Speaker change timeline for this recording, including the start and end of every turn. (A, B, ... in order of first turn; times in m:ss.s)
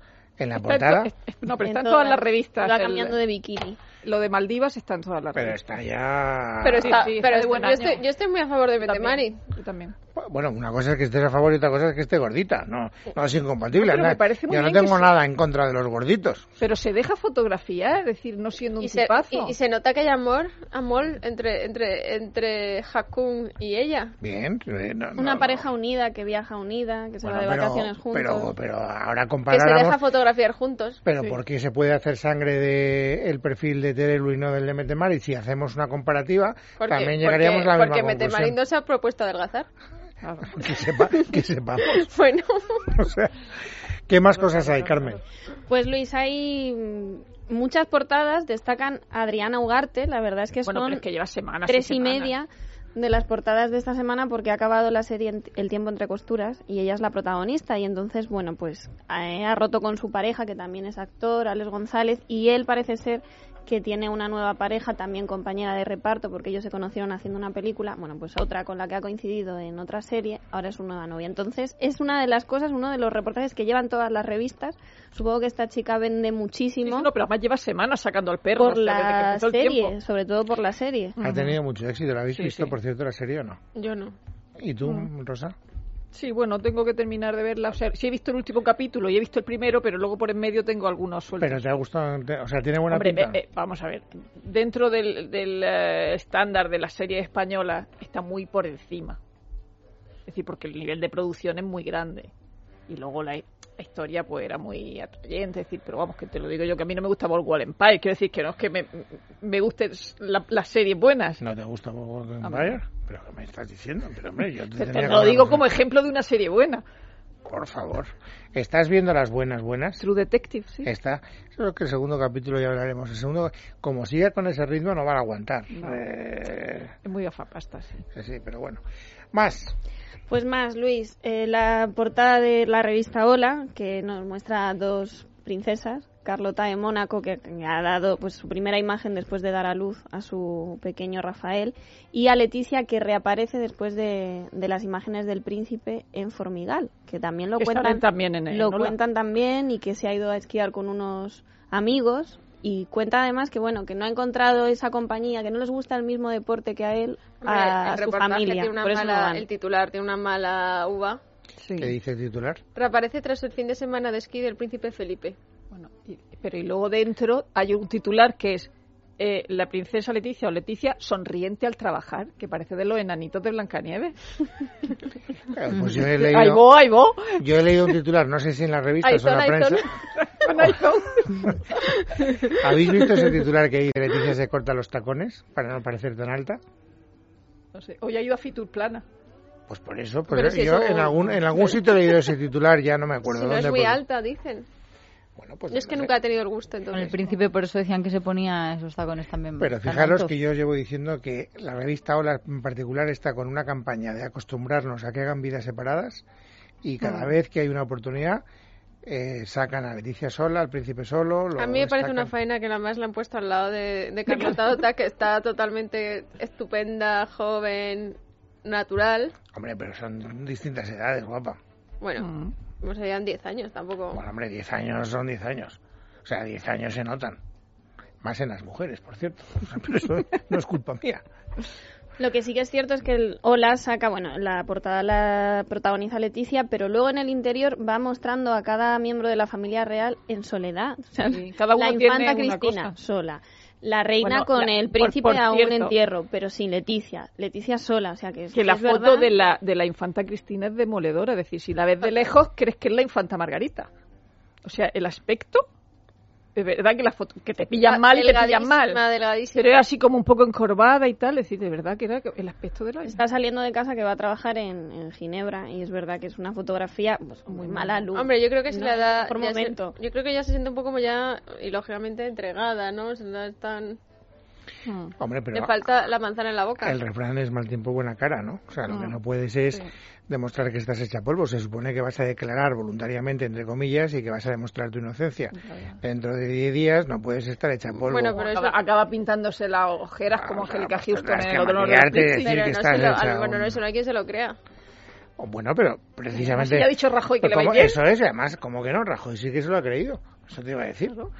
0:00.4-0:01.1 A
0:00.6-0:03.2 B
0:01.6-0:03.8 C
0:04.0-0:05.6 B
0:05.4-0:07.1 A
0:06.6-0:09.4 D
0:06.7-0:08.1 B
0:08.8-0:09.9 B
0:10.2-0:16.4 A
0:13.8-0:15.2 B
0:16.6-0:19.6 B
0:18.8-0:24.1 D
0:24.2-0:25.7 A
0:25.2-0:28.5 C
0:27.2-0:30.0 A
0:29.5-0:31.0 D
0:31.1-0:38.6 A
0:36.8-0:39.7 D
0:40.2-0:40.5 B
0:40.5-0:42.0 A
0:41.8-0:42.9 D
0:43.0-0:43.3 A
0:44.1-0:45.2 A
0:44.4-0:45.2 B
0:45.7-0:51.0 C
0:50.6-0:52.3 B
0:51.7-1:17.1 C
1:16.8-1:20.0 B
1:18.6-1:21.2 C
1:21.2-1:21.6 B
1:21.2-1:23.6 A
1:22.3-1:22.8 B
1:23.8-1:24.2 D
1:24.6-1:25.5 A
1:26.1-1:31.6 B
1:31.4-1:33.4 A
1:32.9-1:39.2 B
1:40.3-1:42.3 B
1:42.9-1:51.4 B
1:51.4-1:55.6 A
1:52.4-1:52.8 B
1:54.8-1:56.8 B
1:57.5-2:00.0 A
2:00.0-2:00.9 B
2:00.8-2:06.9 A
2:05.7-2:06.0 B
2:07.0-2:08.0 B
2:08.1-2:08.8 A
2:09.3-2:09.7 A
2:10.3-2:39.4 C
2:27.6-2:29.0 B
2:37.4-2:41.2 D
2:41.6-2:42.0 B
2:41.8-2:42.6 A
2:42.8-2:45.4 D
2:45.7-2:54.5 B
2:55.5-2:56.6 A
2:56.0-2:57.4 B
2:57.4-2:59.8 A
2:59.0-2:59.6 D
2:59.7-3:01.5 B
3:02.5-3:06.6 A
3:07.7-3:09.0 B
3:09.7-3:14.0 A
3:10.3-3:11.8 B
3:13.3-3:14.6 D
3:15.4-3:16.1 A
3:15.7-3:17.2 D
3:16.9-3:20.4 E
3:19.6-3:26.2 A
3:26.8-3:28.4 A
3:27.0-3:27.3 B
3:29.0-3:32.3 A
3:31.6-3:39.4 D
3:34.3-3:34.8 B
3:39.5-3:41.6 A
3:42.0-3:42.3 D
3:42.2-3:42.6 B
3:42.8-3:44.2 D
3:44.1-3:47.4 A
3:48.2-3:51.2 A
3:52.2-4:09.3 C
4:01.2-4:02.9 B
4:04.2-4:06.0 B
4:08.5-4:13.9 B
4:14.6-4:15.6 B
4:16.5-4:19.0 B
4:17.8-4:19.7 D
4:19.5-4:23.2 B
4:23.0-4:30.0 C
4:27.5-4:28.0 B
4:28.1-4:34.0 D
4:34.9-4:35.1 B
4:35.2-4:35.7 A
4:35.5-4:37.0 D
4:36.8-4:48.4 A
4:38.9-4:39.2 B
4:45.5-4:46.0 B
4:48.1-4:48.8 D
4:48.3-4:52.6 B
4:50.3-4:53.8 A
4:52.2-4:54.6 D
4:55.4-5:01.3 A
4:56.4-4:58.0 B